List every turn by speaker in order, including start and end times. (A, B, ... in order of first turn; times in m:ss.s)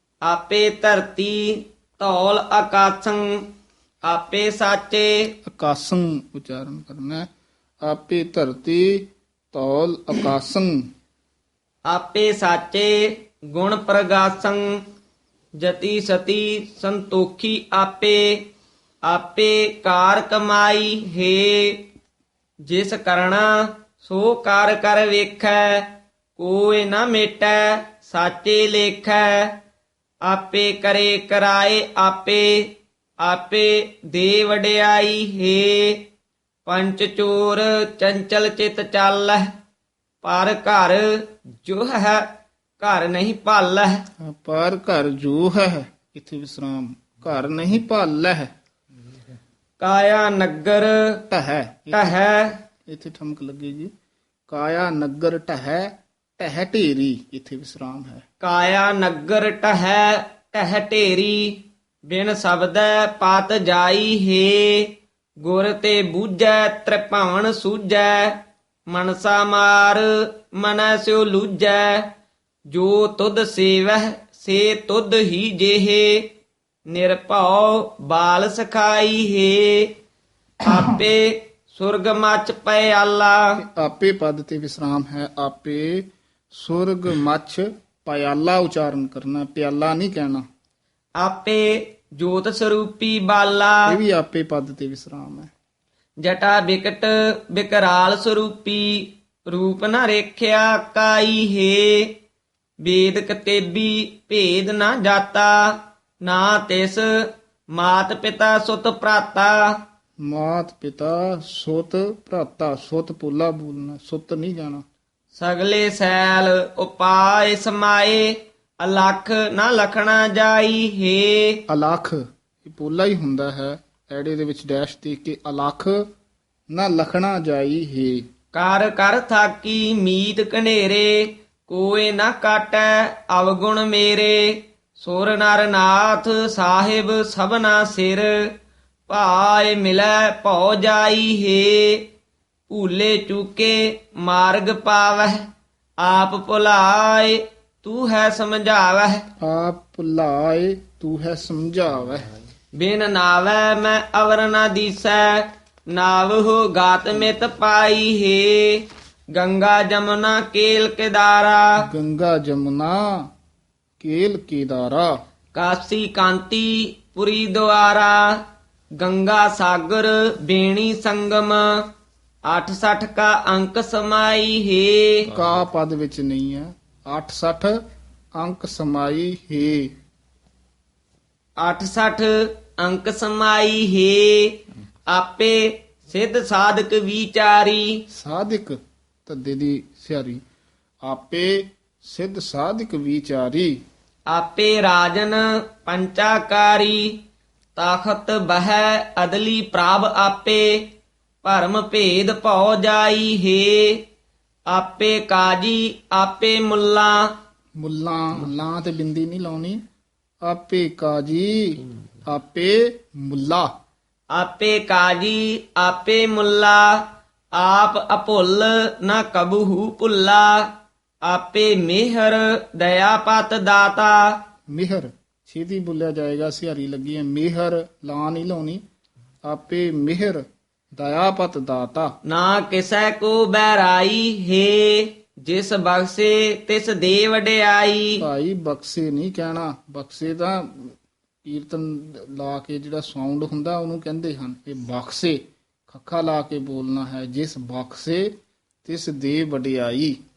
0:00.2-0:03.4 A
0:04.0-0:05.3 A
0:05.4-0:07.3 B
0:07.8-0:10.8 B
0:11.9-0:14.7 A
0:15.6-0:18.4 A
0:19.0-0:21.8 A
0:22.7-0:29.6 A
0:30.2-0:36.1 A
0:36.6-0:39.5 A
0:40.2-0:42.3 A
0:42.8-0:44.0 A
0:44.2-0:48.5 B
0:49.8-0:51.2 A
0:51.3-0:52.2 B
0:51.9-0:52.6 A
0:52.9-0:53.9 B
0:54.5-0:58.2 B
0:58.4-1:04.9 A
1:05.4-1:12.1 A
1:12.7-1:16.3 A
1:16.9-1:19.9 A
1:20.6-1:23.6 A
1:23.6-1:30.4 B
1:31.2-1:34.0 A
1:33.9-1:35.5 B
1:36.2-1:42.1 A
1:42.8-1:45.7 A
1:46.2-1:47.0 A
1:47.7-1:49.8 A
1:50.2-1:54.8 B
1:55.3-2:01.6 A
2:01.7-2:06.0 B
2:06.7-2:08.2 B
2:08.5-2:18.5 A
2:19.1-2:22.0 A
2:22.7-2:25.4 A
2:26.0-2:29.2 A
2:29.4-2:32.3 B
2:32.8-2:41.7 A
2:41.8-2:43.3 B
2:44.0-2:45.1 B
2:45.5-2:48.4 A
2:49.0-2:51.6 A
2:52.5-2:55.3 A
2:55.3-2:57.8 B
2:58.4-2:59.9 B
3:01.6-3:04.6 A
3:05.1-3:08.0 A
3:08.1-3:10.4 B
3:11.0-3:13.8 B
3:14.3-3:17.1 A
3:17.8-3:20.8 A
3:21.4-3:24.0 A
3:24.7-3:27.3 A
3:27.8-3:29.8 B
3:30.4-3:33.7 B
3:34.3-3:40.7 A
3:41.2-3:44.2 A
3:44.7-3:48.8 B
3:49.5-3:52.1 B
3:52.3-3:58.2 A
3:58.2-4:08.3 B
4:08.8-4:10.2 B